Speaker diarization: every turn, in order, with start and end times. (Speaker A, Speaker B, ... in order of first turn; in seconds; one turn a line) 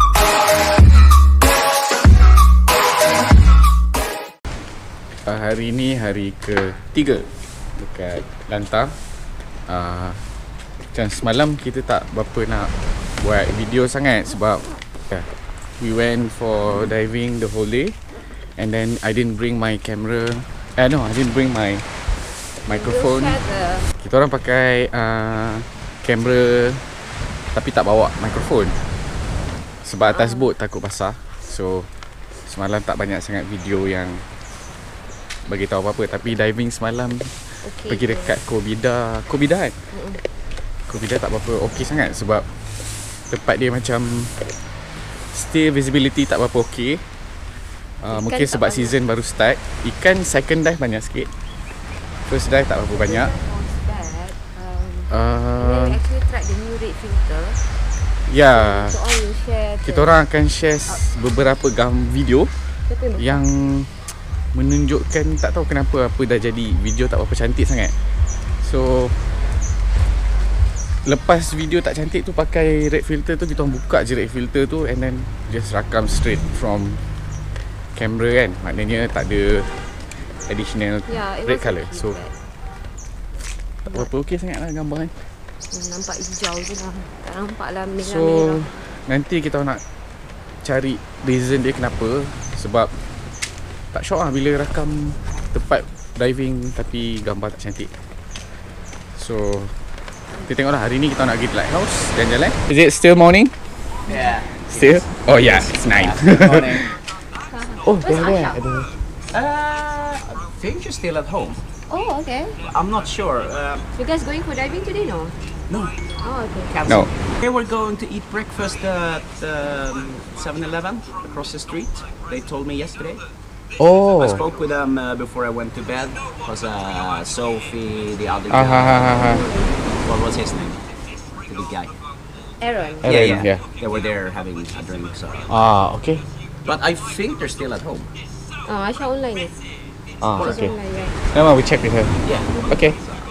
Speaker A: 5.2-8.9
Speaker A: 9.7-10.2
Speaker A: 10.9-22.0
Speaker A: 22.6-23.4
Speaker B: 22.7-23.9
Speaker A: 24.0-26.9
Speaker A: 27.5-28.8
Speaker A: 29.8-31.9
Speaker B: 30.1-30.5
Speaker A: 32.5-34.2
Speaker A: 35.5-39.8
Speaker B: 37.6-38.3
Speaker B: 39.9-40.2
Speaker A: 40.9-42.5
Speaker A: 43.3-44.3
Speaker A: 45.3-47.1
Speaker A: 48.0-51.3
Speaker B: 48.1-48.9
Speaker A: 52.3-53.3
Speaker B: 52.9-57.6
Speaker A: 55.1-56.0
Speaker A: 58.2-59.0
Speaker B: 58.5-60.1
Speaker A: 59.8-62.5
Speaker B: 62.9-63.4
Speaker A: 63.2-63.9
Speaker A: 64.5-67.9
Speaker A: 68.6-69.2
Speaker A: 71.0-77.0
Speaker A: 77.9-79.7
Speaker A: 80.3-82.2
Speaker B: 81.1-82.3
Speaker A: 83.8-85.1
Speaker B: 85.7-88.8
Speaker A: 88.0-89.8
Speaker A: 90.6-93.0
Speaker A: 93.9-97.9
Speaker A: 99.1-99.7
Speaker A: 100.4-103.5
Speaker C: 104.1-106.9
Speaker A: 104.7-106.9
Speaker B: 107.5-108.6
Speaker A: 107.8-108.9
Speaker C: 109.3-111.6
Speaker B: 111.9-112.6
Speaker C: 112.6-113.8
Speaker B: 113.9-115.3
Speaker B: 116.2-117.0
Speaker C: 116.8-123.2
Speaker A: 123.8-124.4
Speaker C: 124.2-129.2
Speaker A: 128.5-129.4
Speaker B: 129.2-129.7
Speaker C: 130.0-130.8
Speaker C: 131.5-131.9
Speaker B: 132.6-133.1
Speaker A: 133.0-133.6
Speaker C: 133.0-135.5
Speaker A: 135.5-136.2
Speaker C: 136.6-138.1
Speaker B: 138.6-139.5
Speaker A: 140.2-140.8
Speaker B: 140.4-141.2
Speaker A: 141.3-143.0
Speaker C: 142.2-142.7